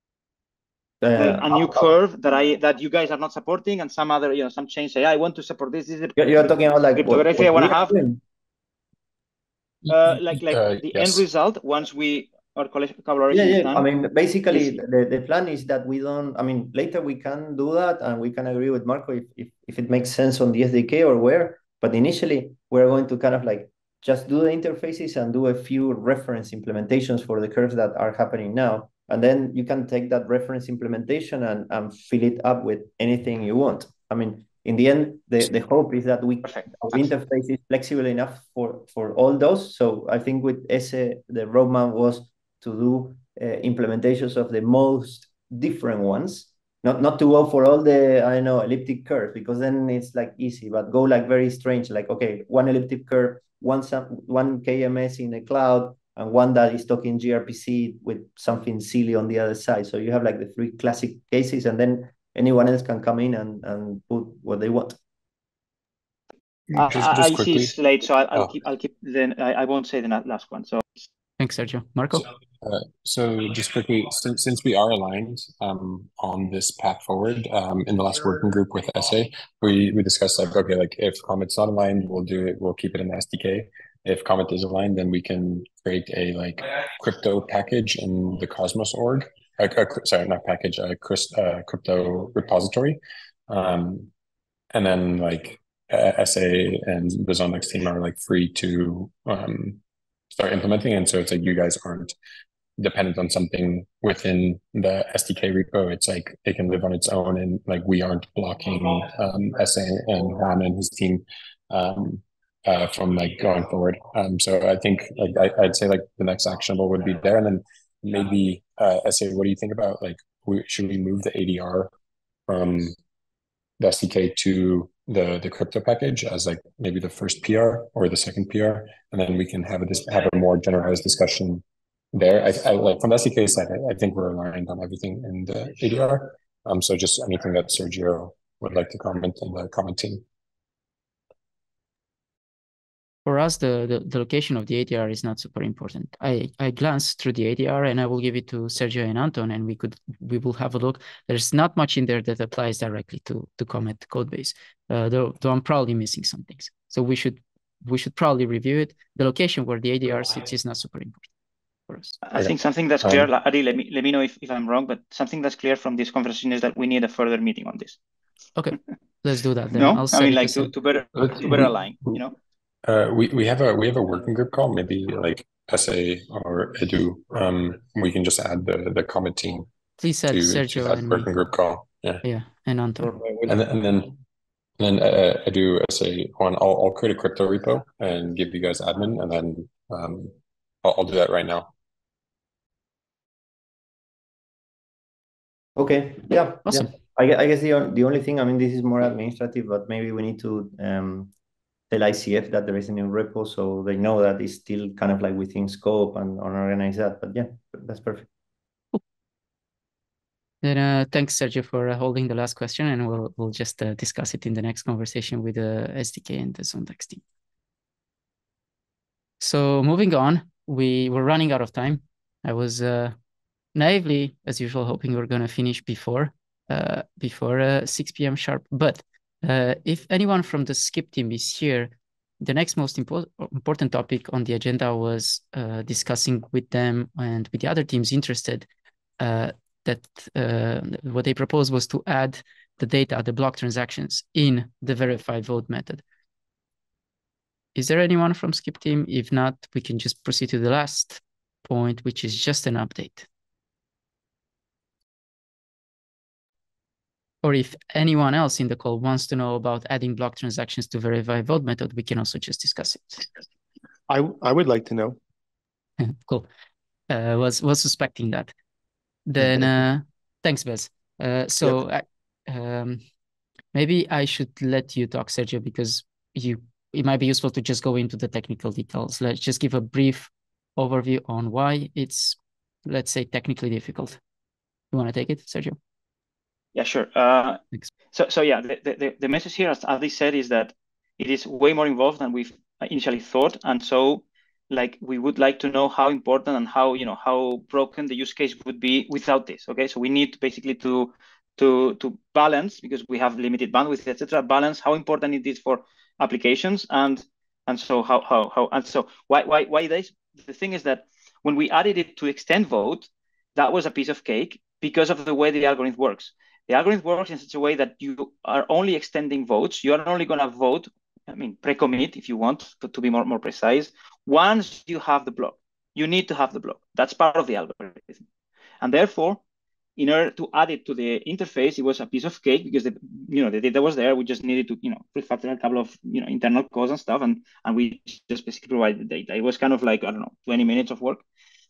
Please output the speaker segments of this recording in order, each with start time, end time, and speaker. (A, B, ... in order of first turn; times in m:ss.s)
0:01.0-0:01.9 A
0:01.2-0:08.0 B
0:06.2-0:08.2 A
0:09.9-0:11.2 C
0:09.9-0:13.9 B
0:13.3-1:05.0 A
0:14.5-0:14.8 B
0:36.4-0:37.1 B
1:06.7-1:07.7 C
1:06.7-1:11.1 B
1:11.4-1:12.3 D
1:12.6-1:34.1 C
1:34.7-1:39.8 C
1:40.3-1:42.1 C
1:42.8-2:01.9 C
2:02.5-2:03.0 C
2:03.8-2:20.2 C
2:23.2-2:41.3 D
2:41.9-2:42.2 D
2:42.2-2:48.0 B
2:42.4-2:43.3 C
2:48.6-2:50.7 D
2:49.7-2:52.3 B
2:51.2-2:52.1 C
2:52.8-2:59.7 C
3:00.0-3:01.3 D
3:00.3-3:02.2 C
3:02.2-3:03.2 D
3:03.0-3:03.5 E
3:03.4-3:04.2 C
3:04.8-3:11.7 C
3:15.8-3:21.3 A
3:16.7-3:16.9 D
3:21.9-3:28.3 A
3:30.6-3:37.2 D
3:39.4-3:43.2 D
3:43.7-3:58.7 D
3:59.2-4:06.0 D
4:07.7-4:13.3 D
4:17.4-4:23.3 D
4:24.1-4:25.2 E
4:26.0-4:26.5 D
4:27.1-4:28.5 D
4:29.2-4:33.0 D
4:29.4-4:29.7 E
4:33.7-4:44.2 D
4:44.9-4:45.8 D
4:46.7-4:47.6 B
4:48.1-5:28.2 B
5:28.8-5:29.4 B
5:30.0-5:41.2 B